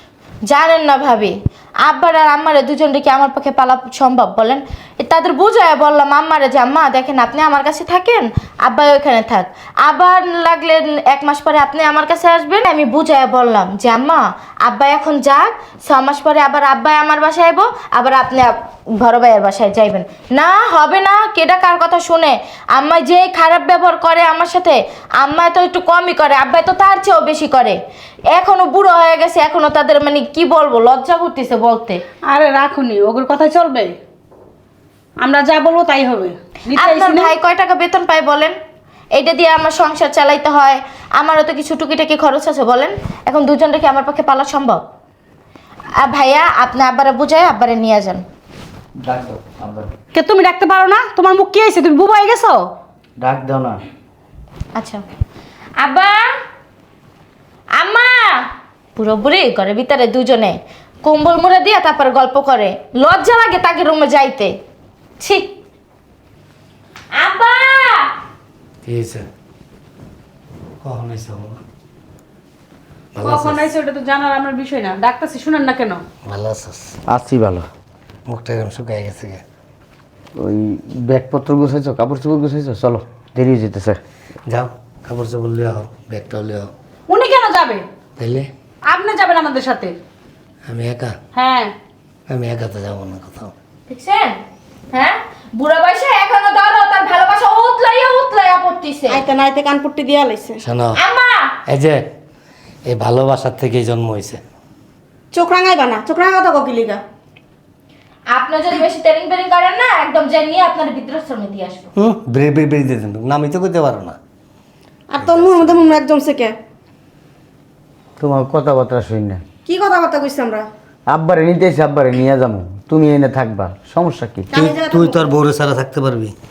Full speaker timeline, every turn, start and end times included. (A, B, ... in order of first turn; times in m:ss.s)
0:00.4-0:27.8 A
0:28.3-0:32.0 A
0:32.2-0:34.0 B
0:35.2-0:37.3 B
0:36.7-0:38.5 A
0:39.1-0:44.8 A
0:46.0-0:48.2 A
0:49.0-0:49.9 C
0:50.1-0:52.7 B
0:53.2-0:53.8 C
0:54.8-0:55.0 A
0:55.8-0:56.2 A
0:57.8-0:58.4 A
0:59.0-1:04.5 A
1:05.2-1:05.5 A
1:07.2-1:08.1 A
1:08.8-1:09.3 D
1:10.8-1:11.6 D
1:13.2-1:13.7 D
1:13.2-1:16.0 B
1:16.2-1:17.0 D
1:17.1-1:17.7 C
1:18.3-1:19.4 D
1:20.4-1:24.0 C
1:24.5-1:26.7 D
1:27.1-1:27.8 B
1:28.2-1:28.5 D
1:28.9-1:30.0 B
1:30.7-1:31.1 D
1:31.3-1:31.7 B
1:32.3-1:33.5 D
1:33.9-1:34.4 A
1:34.9-1:39.2 A
1:39.1-1:40.6 E
1:40.6-1:41.0 D
1:40.9-1:41.5 A
1:41.7-1:42.0 D
1:42.9-1:44.4 D
1:45.3-1:47.0 E
1:48.3-1:51.9 A
1:52.0-1:54.2 D
1:55.1-1:56.6 E
1:55.2-1:56.0 D
1:58.2-1:59.4 C
1:59.6-2:00.7 E
2:01.1-2:04.5 C
2:04.5-2:05.2 E
2:04.6-2:06.3 D